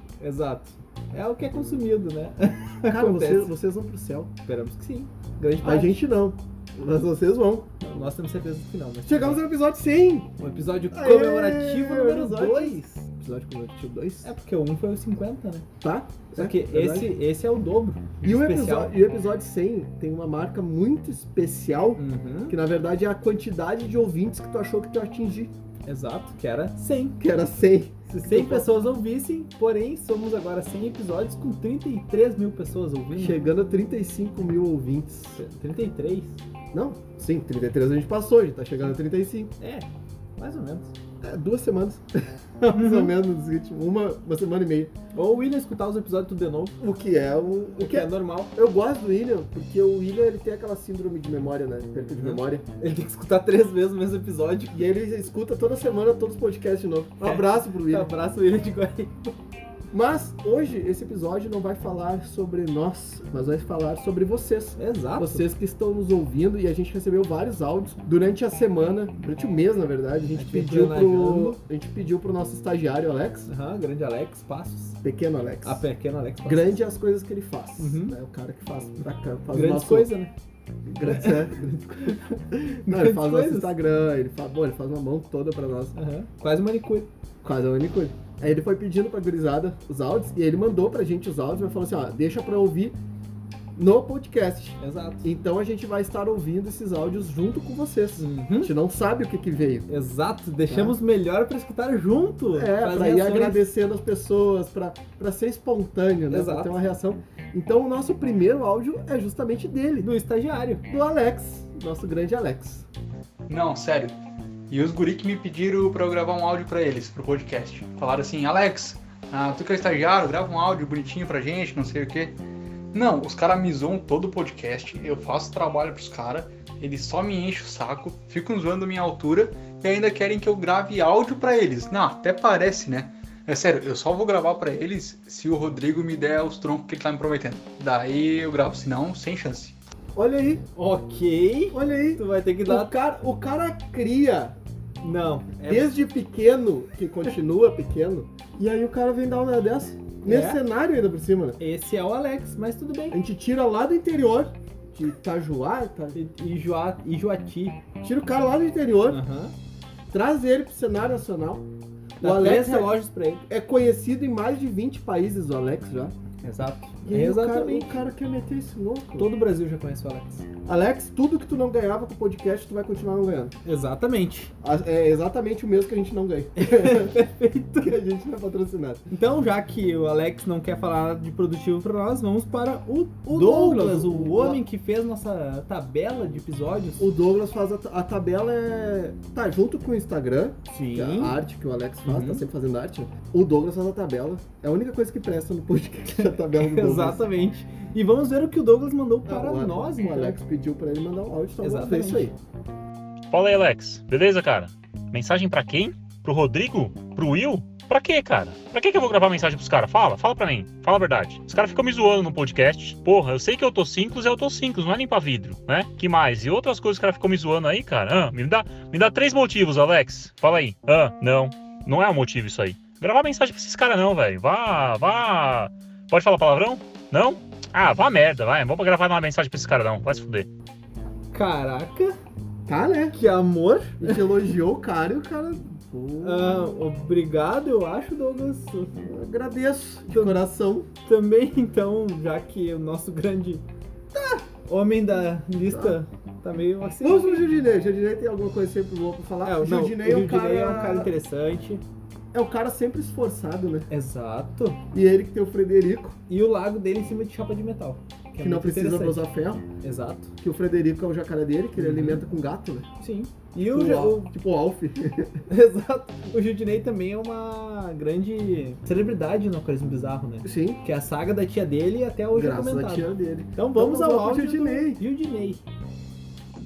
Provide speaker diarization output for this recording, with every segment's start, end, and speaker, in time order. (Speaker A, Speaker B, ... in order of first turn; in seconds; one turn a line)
Speaker A: 0.2-3.5
Speaker B: 2.9-4.3
Speaker A: 4.5-5.9
Speaker B: 5.6-7.7
Speaker A: 7.8-9.4
Speaker B: 9.0-10.3
Speaker A: 10.4-13.0
Speaker B: 10.9-14.3
Speaker A: 14.2-15.7
Speaker B: 15.8-17.1
Speaker A: 16.3-18.9
Speaker B: 18.2-25.5
Speaker A: 21.9-22.6
Speaker A: 25.9-27.2
Speaker B: 27.2-28.7
Speaker A: 28.1-33.4
Speaker B: 33.1-35.4
Speaker A: 35.3-36.4
Speaker B: 36.7-39.5
Speaker A: 39.6-40.9
Speaker B: 41.2-44.9
Speaker A: 42.7-43.1
Speaker A: 45.1-46.8
Speaker B: 46.8-52.6
Speaker A: 47.8-48.5
Speaker A: 52.2-54.8
Speaker B: 54.7-58.1
Speaker A: 57.2-59.3
Speaker B: 59.9-73.5
Speaker A: 64.8-65.4
Speaker A: 70.3-71.6
Speaker A: 73.5-75.0
Speaker B: 75.0-75.8
Speaker A: 75.6-76.8
Speaker B: 76.5-80.1
Speaker A: 77.8-78.1
Speaker A: 79.5-80.3
Speaker B: 80.9-86.0
Speaker A: 81.1-81.3
Speaker A: 82.9-83.7
Speaker A: 85.9-87.1
Speaker B: 87.4-93.0
Speaker B: 93.8-99.8
Speaker A: 94.8-95.3
Speaker A: 98.2-98.7
Speaker A: 99.9-103.7
Speaker B: 100.7-101.0
Speaker B: 102.5-110.1
Speaker A: 106.3-106.8
Speaker A: 110.0-110.8
Speaker B: 110.9-112.8
Speaker C: 113.5-114.1
Speaker C: 114.7-122.3
Speaker C: 122.9-139.7
Speaker B: 140.2-140.6
Speaker A: 140.7-142.9
Speaker B: 141.7-144.6
Speaker A: 145.0-146.0
Speaker B: 145.7-151.6
Speaker A: 150.2-150.6
Speaker A: 151.6-153.2
Speaker B: 153.1-156.2
Speaker A: 156.1-157.8
Speaker B: 158.0-159.2
Speaker A: 159.1-159.5
Speaker B: 160.1-161.7
Speaker B: 162.2-162.9
Speaker A: 162.2-163.4
Speaker B: 163.5-166.1
Speaker A: 166.4-167.9
Speaker B: 167.1-169.3
Speaker A: 169.1-170.4
Speaker B: 170.6-173.5
Speaker A: 173.6-174.5
Speaker B: 174.6-177.2
Speaker A: 176.6-177.9
Speaker B: 177.8-179.0
Speaker A: 179.1-187.1
Speaker B: 183.3-184.6
Speaker B: 187.0-197.2
Speaker A: 190.7-191.3
Speaker A: 192.0-192.4
Speaker A: 196.1-200.3
Speaker B: 199.3-202.3
Speaker A: 201.6-202.3
Speaker D: 203.3-230.5
Speaker A: 231.3-232.2
Speaker B: 232.7-233.2
Speaker A: 233.1-234.3
Speaker B: 234.0-236.7
Speaker A: 236.2-238.9
Speaker B: 239.0-240.9
Speaker A: 240.1-240.4
Speaker A: 241.0-243.6
Speaker B: 244.1-244.4
Speaker A: 244.7-247.4
Speaker B: 245.7-246.0
Speaker B: 247.0-251.1
Speaker A: 249.4-251.8
Speaker B: 252.3-253.9
Speaker A: 253.9-254.8
Speaker B: 254.9-256.1
Speaker A: 256.3-259.2
Speaker B: 258.4-259.6
Speaker A: 259.8-260.3
Speaker B: 260.4-262.9
Speaker A: 261.8-262.2
Speaker A: 263.0-264.3
Speaker B: 263.6-265.3
Speaker A: 265.5-275.6
Speaker B: 270.4-270.8
Speaker B: 272.3-275.0